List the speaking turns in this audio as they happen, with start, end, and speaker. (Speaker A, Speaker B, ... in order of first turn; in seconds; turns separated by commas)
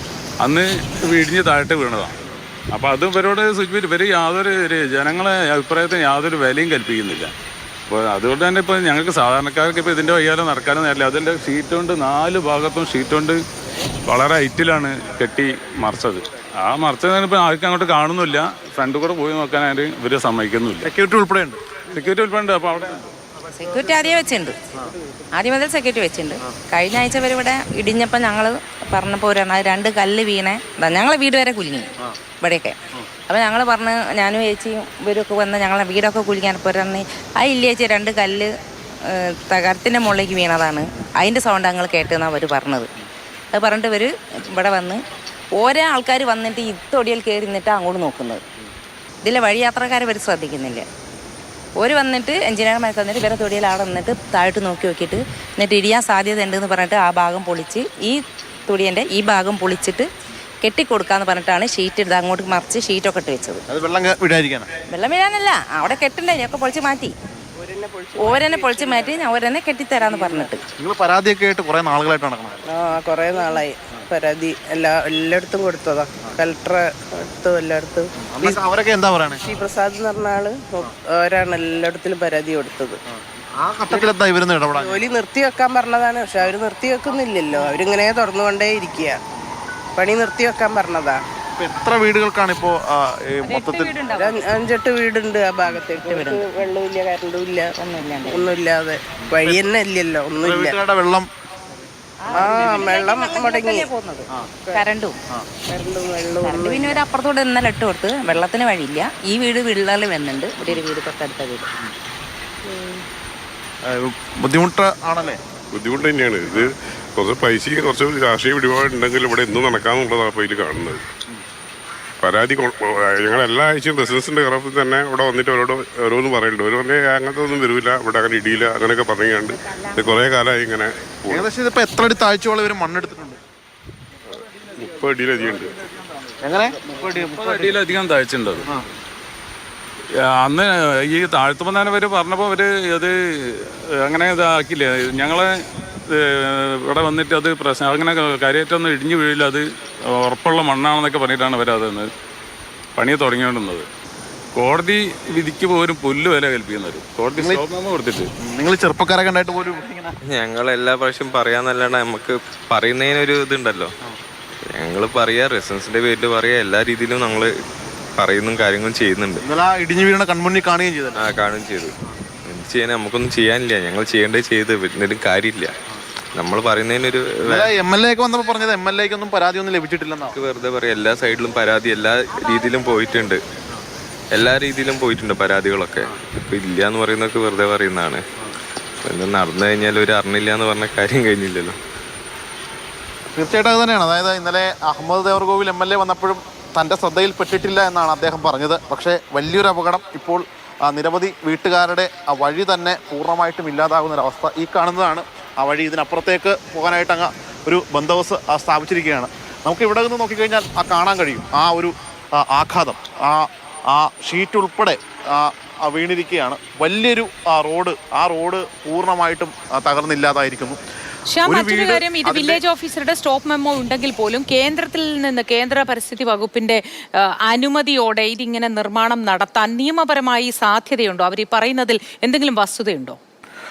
Speaker A: 0.4-2.2, Speaker A: 2.7-7.3, Speaker A: 7.9-13.4, Speaker A: 14.1-20.9, Speaker B: 20.8-21.6, Speaker A: 21.9-23.1, Speaker C: 23.5-24.6, Speaker C: 25.3-32.8, Speaker C: 33.3-38.5, Speaker C: 39.0-42.9, Speaker C: 43.5-45.0, Speaker C: 45.5-48.4, Speaker C: 49.2-50.8, Speaker C: 51.8-60.1, Speaker C: 60.6-63.6, Speaker B: 63.7-64.7, Speaker C: 64.9-67.1, Speaker D: 67.6-69.3, Speaker C: 68.2-70.6, Speaker D: 70.0-70.5, Speaker B: 70.8-72.6, Speaker D: 72.7-78.6, Speaker B: 78.4-79.4, Speaker D: 79.4-83.0, Speaker B: 83.5-85.0, Speaker D: 84.7-89.2, Speaker D: 90.0-91.2, Speaker B: 91.5-94.0, Speaker C: 93.4-94.4, Speaker D: 94.1-97.7, Speaker C: 95.9-96.5, Speaker C: 97.8-98.6, Speaker D: 98.2-100.7, Speaker B: 100.4-101.3, Speaker C: 102.2-105.2, Speaker D: 102.3-103.9, Speaker D: 105.7-107.0, Speaker C: 106.4-111.7, Speaker D: 112.6-113.0, Speaker B: 113.8-115.4, Speaker E: 115.7-121.0, Speaker E: 122.2-131.5, Speaker B: 131.3-133.4, Speaker E: 134.8-135.7, Speaker B: 136.4-137.6, Speaker A: 137.1-138.7, Speaker A: 140.4-145.5, Speaker A: 146.1-152.1, Speaker A: 152.9-153.9, Speaker A: 154.5-158.3, Speaker B: 157.4-157.6, Speaker B: 158.4-160.1, Speaker F: 160.2-163.9, Speaker F: 164.7-167.5, Speaker F: 168.2-169.4, Speaker B: 169.4-171.2, Speaker F: 171.2-171.9, Speaker F: 172.4-175.7, Speaker F: 176.3-177.7, Speaker B: 177.4-180.3, Speaker F: 180.3-183.4, Speaker F: 184.3-188.2, Speaker F: 189.0-191.8, Speaker B: 193.3-220.8, Speaker G: 221.3-233.2, Speaker B: 221.4-222.6